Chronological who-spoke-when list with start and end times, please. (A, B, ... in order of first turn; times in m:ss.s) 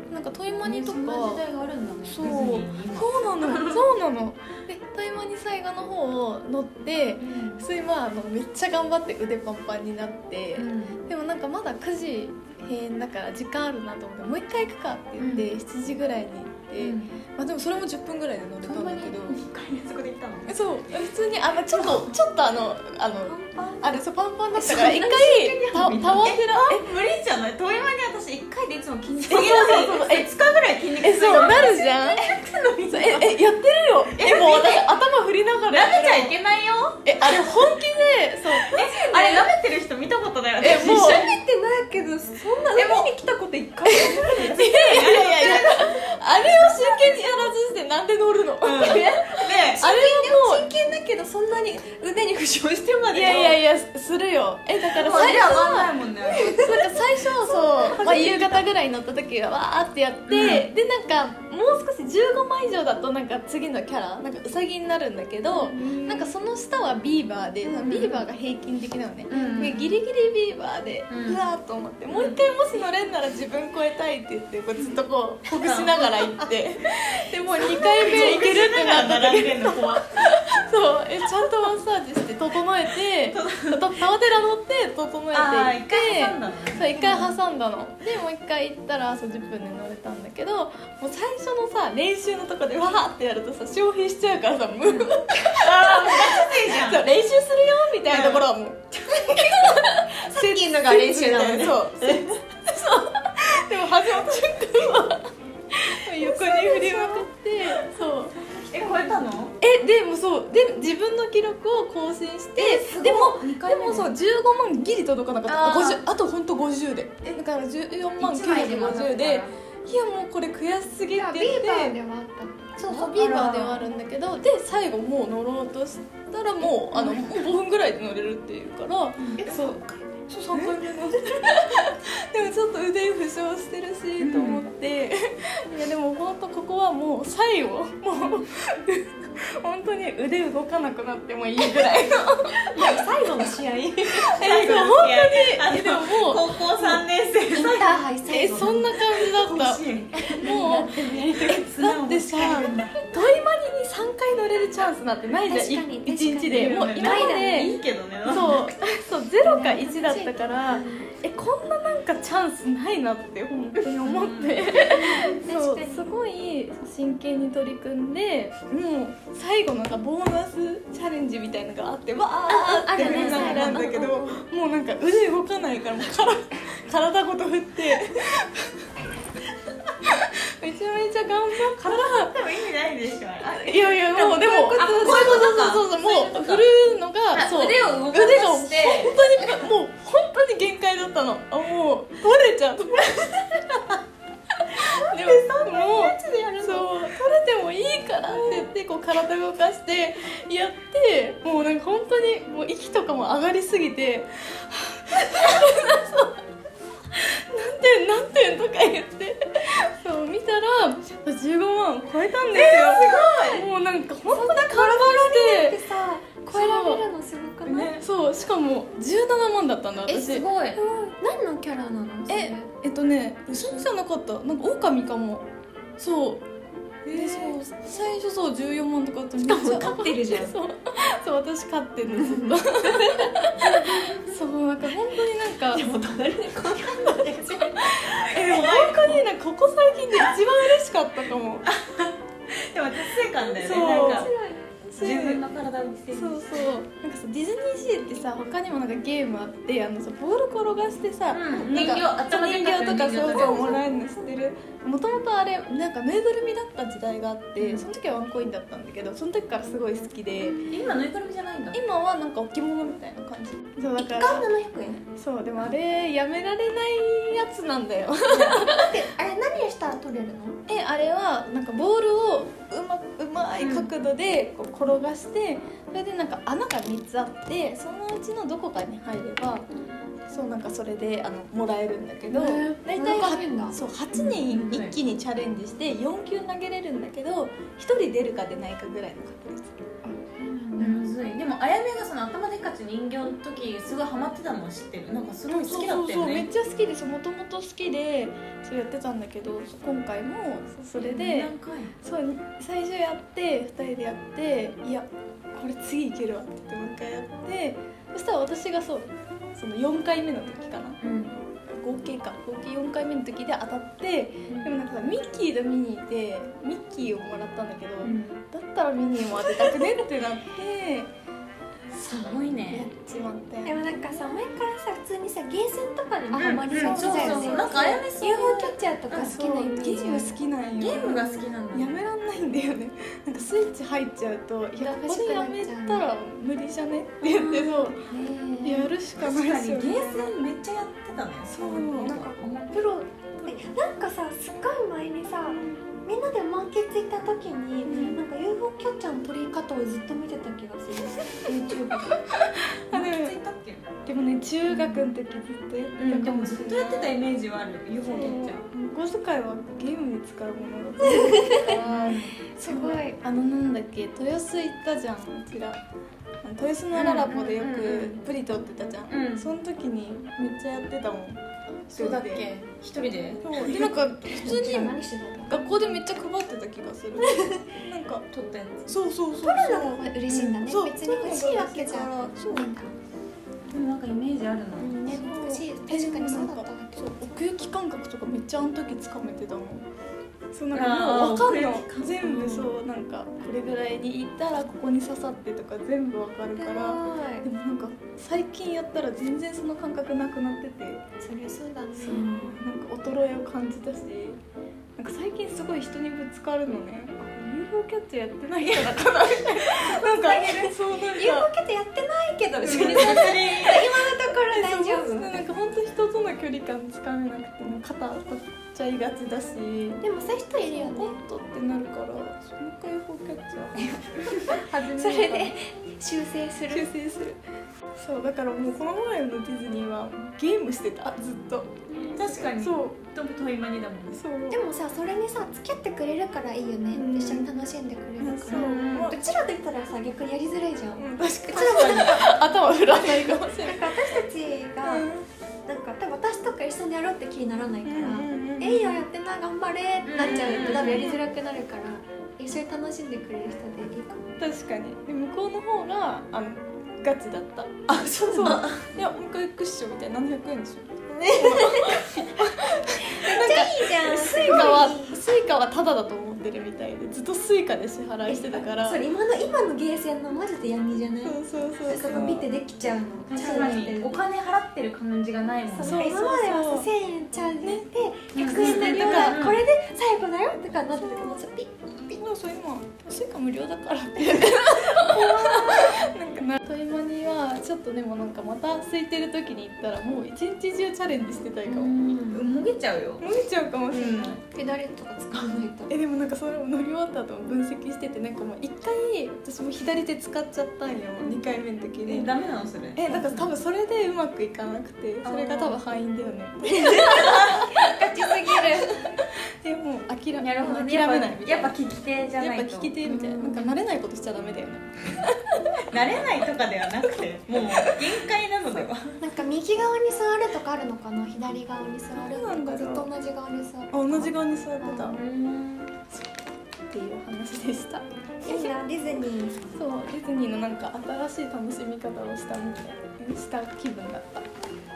0:00.1-0:01.4 A
0:00.6-0:03.8 B
0:02.0-0:19.4 A
0:07.2-0:07.6 B
0:10.6-0:11.0 B
0:15.2-0:15.5 B
0:16.8-0:17.2 B
0:18.6-0:20.6 B
0:20.5-0:26.8 A
0:21.7-0:22.1 B
0:23.2-0:24.0 B
0:24.5-0:33.4 B
0:29.2-0:30.3 A
0:31.0-0:32.2 A
0:32.9-0:36.4 A
0:34.1-0:35.0 B
0:35.7-0:37.6 B
0:37.0-0:39.5 A
0:38.6-0:41.3 B
0:40.6-0:41.3 A
0:40.8-0:47.5 C
0:42.7-0:43.2 B
0:43.8-0:46.0 B
0:43.9-0:50.7 A
0:48.6-0:49.8 B
0:49.6-0:53.6 C
0:53.1-1:45.3 A
0:54.8-0:56.6 B
0:55.0-0:55.5 C
0:56.2-0:58.2 C
0:57.9-0:58.6 B
1:00.3-1:00.7 B
1:05.5-1:06.0 C
1:07.8-1:08.2 B
1:09.3-1:10.0 B
1:11.1-1:11.4 B
1:12.1-1:12.4 B
1:14.8-1:16.4 B
1:17.5-1:20.2 B
1:23.1-1:23.8 B
1:25.3-1:26.9 B
1:26.9-1:27.3 C
1:34.9-1:37.0 B
1:38.0-1:38.5 B
1:39.1-1:42.4 B
1:45.9-1:48.4 A
1:46.2-1:47.2 C
1:47.6-1:48.0 B
1:48.5-1:49.5 B
1:48.7-1:49.2 C
1:49.6-2:01.9 A
1:52.6-1:54.1 B
1:55.4-1:56.0 B
1:58.2-1:59.5 B
2:01.1-2:03.2 C
2:02.8-2:23.3 A
2:02.9-2:03.9 B
2:09.2-2:09.8 B
2:10.5-2:10.8 B
2:14.2-2:14.7 B
2:22.7-2:24.3 C
2:24.0-2:28.0 B
2:24.1-2:27.0 A
2:27.5-2:28.9 C
2:28.3-2:58.9 A
2:29.0-2:32.9 B
2:30.2-2:31.5 C
2:32.4-2:33.3 C
2:35.4-2:38.7 C
2:36.5-2:38.5 B
2:39.4-2:41.1 C
2:44.0-2:44.9 B
2:44.7-2:46.1 C
2:52.5-2:54.3 C
2:53.0-2:54.0 B
3:00.0-3:02.5 A
3:01.8-3:06.7 B
3:03.5-3:13.3 A
3:07.3-3:09.2 B
3:14.8-3:26.4 A
3:15.2-3:16.8 B
3:16.3-3:16.6 C
3:27.1-3:35.8 A
3:32.5-3:33.6 B
3:34.2-3:37.9 C
3:36.4-3:37.0 A
3:37.6-3:38.0 B
3:37.9-3:40.5 A
3:40.0-3:40.8 B
3:40.7-3:42.7 C
3:42.3-3:45.5 A
3:46.0-3:46.5 A
3:47.0-3:47.6 B
3:47.0-3:55.9 A
3:49.4-3:50.6 B
3:52.8-3:54.3 B
3:55.7-3:59.2 B
3:56.6-4:01.6 A
4:01.7-4:04.3 B
4:03.6-4:04.3 A
4:03.7-4:04.6 C
4:04.8-4:05.4 A
4:05.0-4:06.7 B
4:06.1-4:20.6 A
4:11.3-4:13.8 B
4:17.6-4:17.8 B
4:20.4-4:20.8 C
4:20.7-4:21.8 B
4:21.7-4:24.5 A
4:24.0-4:25.0 C
4:25.2-4:28.9 A
4:28.3-4:30.6 C
4:30.7-4:39.7 A
4:33.6-4:33.9 B
4:39.7-4:40.0 C
4:40.3-4:49.7 A
4:42.3-4:43.8 C
4:44.1-4:45.0 B
4:50.0-4:51.0 C
4:50.8-4:56.5 B
4:55.5-5:11.0 A
5:01.0-5:01.9 B
5:11.0-5:11.4 B
5:11.6-5:21.1 A
5:14.5-5:14.8 B
5:18.0-5:18.4 B
5:21.9-5:22.9 B
5:22.7-5:24.4 A
5:23.6-5:30.4 C
5:26.3-5:27.7 A
5:26.3-5:28.8 B
5:29.1-5:38.1 A
5:30.8-5:32.0 B
5:34.8-5:36.1 C
5:37.2-5:38.9 C
5:38.6-5:40.4 A
5:39.2-5:42.8 B
5:41.5-5:42.3 A
5:42.0-5:52.2 C
5:43.4-5:43.7 A
5:45.5-5:45.8 A
5:47.8-5:48.2 A
5:51.4-5:53.4 A
5:52.9-5:53.9 B
5:54.0-5:57.2 A
5:54.7-5:55.1 B
5:56.0-5:58.7 B
5:58.1-6:05.8 A
6:01.0-6:01.7 C
6:01.7-6:02.3 B
6:02.5-6:03.2 C
6:06.4-6:12.4 A
6:06.9-6:08.2 B
6:09.1-6:09.5 B
6:11.9-6:13.9 B
6:13.4-6:18.2 A
6:14.3-6:15.8 C
6:18.3-6:19.0 B
6:18.9-6:20.1 A
6:19.4-6:22.9 C
6:20.3-6:20.6 B
6:20.6-6:22.8 A
6:23.7-6:24.9 B
6:24.8-6:27.4 C
6:25.0-6:29.9 A
6:30.5-6:41.0 A
6:30.7-6:32.7 B
6:36.6-6:37.5 C
6:41.2-6:42.6 C
6:42.0-6:44.4 A
6:45.0-6:51.5 A
6:49.8-6:55.5 C
6:52.6-6:53.9 B
6:52.6-7:05.6 A
7:00.0-7:01.2 C
7:04.9-7:06.9 C
7:06.7-7:07.4 A
7:08.0-7:13.0 A
7:11.9-7:12.2 C
7:12.1-7:14.2 B
7:14.2-7:14.6 A
7:14.5-7:25.1 C
7:16.9-7:17.5 A
7:18.2-7:19.2 A
7:18.5-7:19.1 B
7:21.0-7:24.2 A
7:21.6-7:22.2 B
7:24.8-7:25.2 A
7:25.6-7:34.3 C
7:27.8-7:29.0 A
7:30.1-7:31.1 B
7:30.4-7:31.2 A
7:34.4-7:49.0 A
7:37.9-7:38.8 B
7:41.1-7:45.2 C
7:48.2-7:54.2 C
7:51.2-7:52.5 A
7:51.9-7:52.4 B
7:53.3-7:56.1 B
7:55.7-8:01.7 C
7:55.8-7:56.9 A
7:57.6-7:57.9 A
7:58.3-7:59.6 B
7:58.4-7:59.4 A
8:00.9-8:01.4 A
8:02.1-8:12.0 A
8:05.0-8:05.8 C
8:11.6-8:13.2 B
8:13.2-8:14.4 A
8:14.0-8:14.3 B
8:14.0-8:15.9 C
8:15.9-8:22.3 A
8:22.0-8:23.6 B
8:23.0-8:31.8 A
8:25.2-8:25.8 B
8:26.7-8:29.0 C
8:27.1-8:27.6 B
8:30.4-8:33.0 B
8:32.4-8:35.7 A
8:33.0-8:33.7 C
8:35.9-8:39.2 B
8:37.6-8:38.0 A
8:39.2-8:45.2 C
8:42.1-8:43.1 A
8:43.9-8:45.2 A
8:45.1-8:45.9 B
8:46.9-8:48.8 A
8:48.4-8:49.6 C
8:49.7-8:54.5 A